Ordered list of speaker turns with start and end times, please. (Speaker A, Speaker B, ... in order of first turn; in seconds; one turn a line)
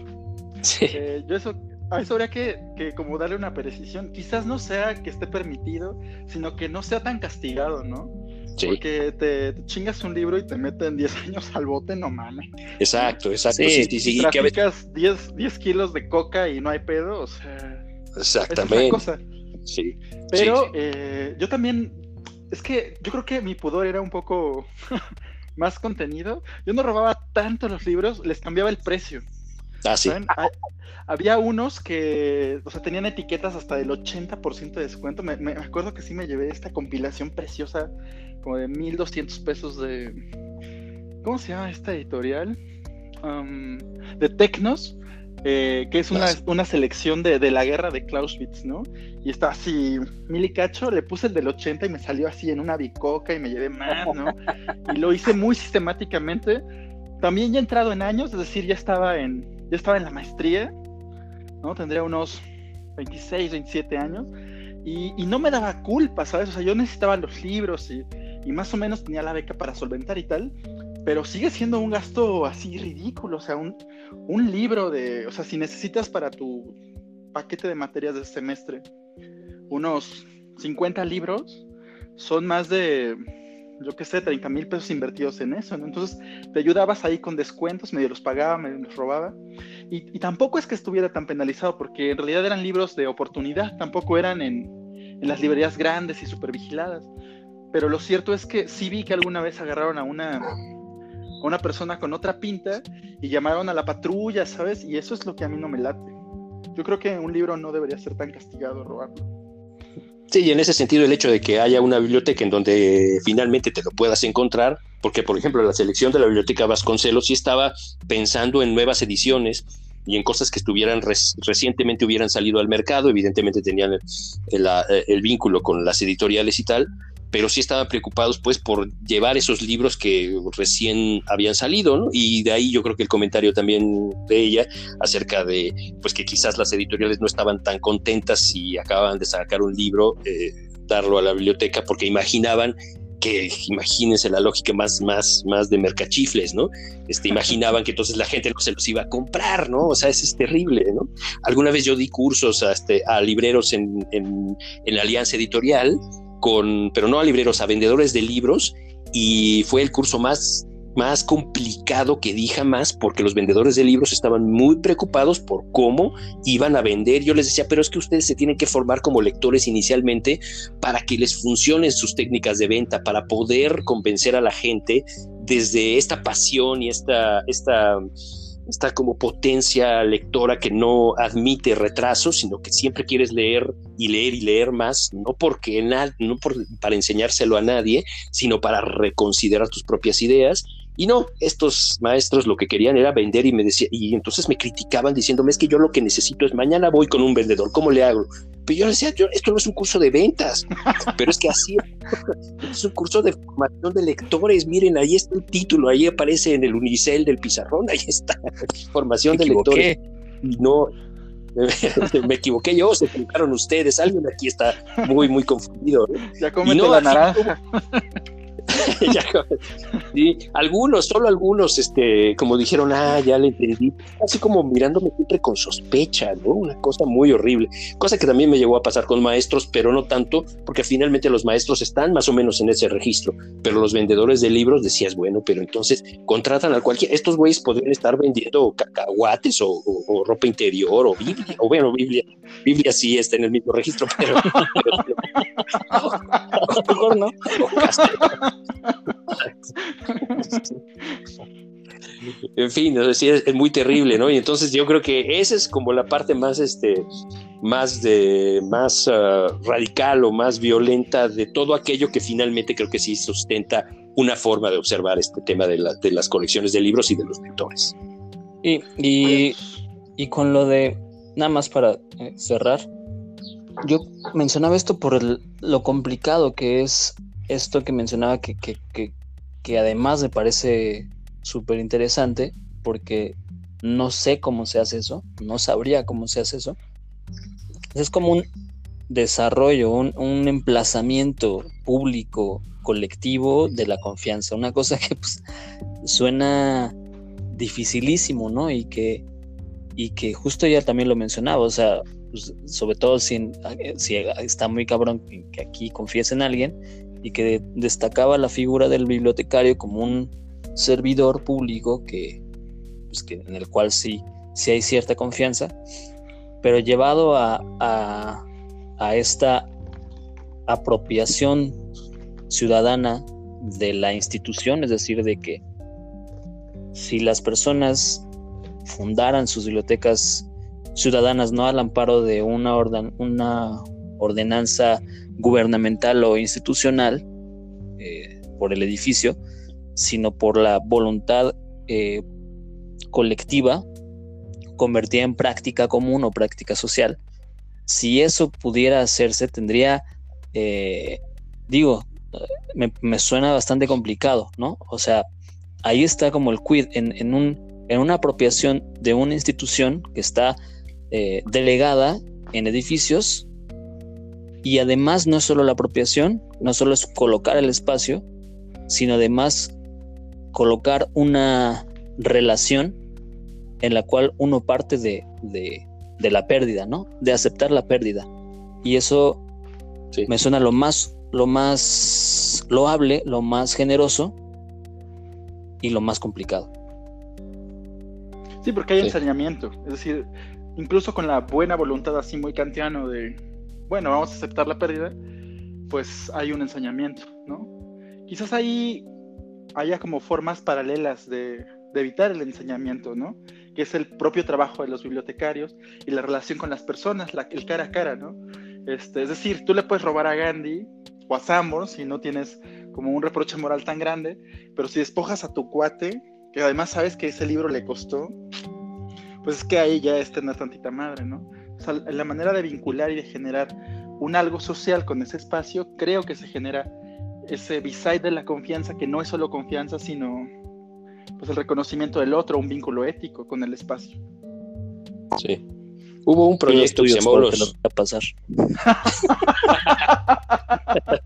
Speaker A: 0.6-1.0
Speaker B: 0.9-13.1
Speaker A: 12.8-14.6
Speaker C: 13.5-13.9
Speaker B: 14.0-17.9
Speaker A: 18.2-19.0
Speaker B: 18.5-19.2
Speaker A: 19.7-20.7
Speaker B: 20.3-25.0
Speaker B: 25.6-29.2
Speaker A: 29.9-30.2
Speaker B: 30.1-40.2
Speaker B: 41.2-42.6
Speaker B: 43.2-56.6
Speaker B: 57.2-60.8
Speaker B: 61.6-62.4
Speaker B: 63.0-64.3
Speaker B: 64.8-76.8
Speaker B: 77.3-78.8
Speaker B: 79.7-81.6
Speaker B: 82.2-83.2
Speaker B: 83.8-89.4
Speaker B: 89.9-97.1
Speaker B: 97.7-100.5
Speaker B: 101.4-106.2
Speaker B: 106.8-109.3
Speaker A: 110.3-178.1
Speaker A: 178.7-209.9
Speaker C: 209.3-210.0
Speaker A: 210.4-210.9
Speaker A: 211.6-217.5
Speaker B: 216.4-218.1
Speaker A: 218.7-246.9
Speaker C: 246.6-247.8
Speaker A: 247.5-248.6
Speaker A: 249.3-250.8
Speaker A: 252.2-257.1
Speaker A: 257.6-267.9
Speaker C: 268.6-269.6
Speaker C: 270.2-272.9
Speaker C: 273.8-286.8
Speaker C: 287.9-288.5
Speaker C: 289.1-295.4
Speaker C: 296.0-296.9
Speaker C: 297.5-299.2
Speaker C: 300.0-312.4
Speaker C: 313.1-315.7
Speaker C: 316.6-318.4
Speaker C: 319.0-319.7
Speaker C: 320.7-321.8
Speaker C: 322.5-325.6
Speaker C: 326.9-328.3
Speaker C: 328.9-337.2
Speaker C: 338.0-339.4
Speaker C: 339.9-342.2
Speaker C: 343.1-343.9
Speaker C: 344.8-347.2
Speaker C: 347.9-350.0
Speaker C: 350.5-355.3
Speaker C: 355.8-360.6
Speaker C: 361.1-363.5
Speaker C: 364.6-368.2
Speaker C: 368.9-369.8
Speaker C: 370.5-373.0
Speaker C: 373.8-378.3
Speaker C: 378.8-379.4
Speaker C: 380.3-384.4
Speaker C: 385.8-386.7
Speaker B: 388.6-395.1
Speaker B: 395.9-397.7
Speaker B: 398.3-399.1
Speaker B: 399.8-418.4
Speaker B: 419.4-426.9
Speaker B: 427.4-430.5
Speaker B: 431.4-434.2
Speaker A: 435.3-435.6
Speaker A: 436.2-437.7
Speaker C: 436.7-439.7